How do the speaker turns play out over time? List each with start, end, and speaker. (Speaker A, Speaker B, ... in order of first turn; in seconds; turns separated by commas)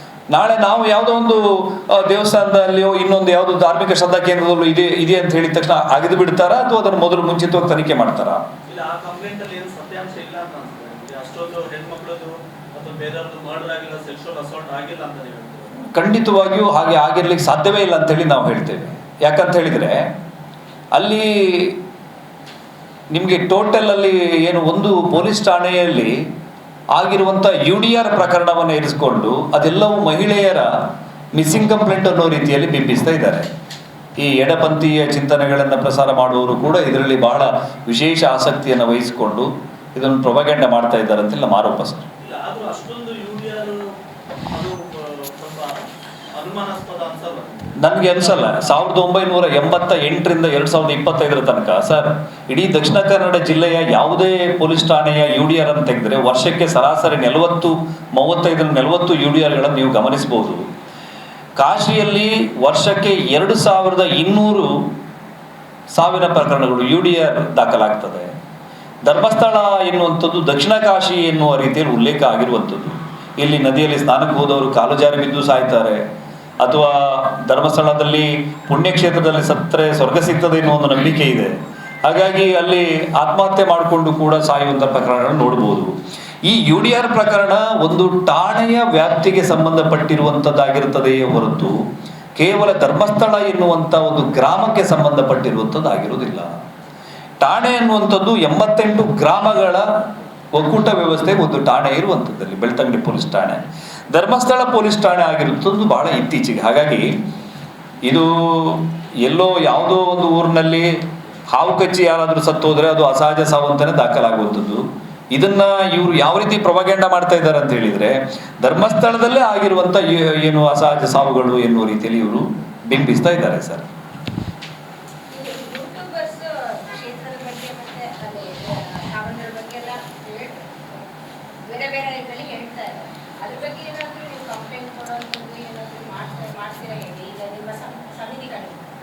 Speaker A: 0.3-8.4, Speaker B: 8.7-15.7, Speaker A: 15.8-20.1, Speaker A: 20.9-21.8, Speaker A: 23.1-26.2, Speaker A: 26.9-33.5, Speaker A: 34.2-42.1, Speaker B: 42.3-43.8, Speaker B: 44.6-45.5, Speaker B: 46.4-48.2, Speaker A: 47.8-60.7, Speaker A: 61.6-64.9, Speaker A: 65.9-68.3, Speaker A: 69.0-76.0, Speaker A: 76.6-81.5, Speaker A: 82.0-85.9, Speaker A: 86.4-91.8, Speaker A: 92.3-96.5, Speaker A: 97.4-107.1, Speaker A: 108.0-110.9, Speaker A: 111.5-123.8, Speaker C: 125.3-131.1, Speaker C: 131.7-138.8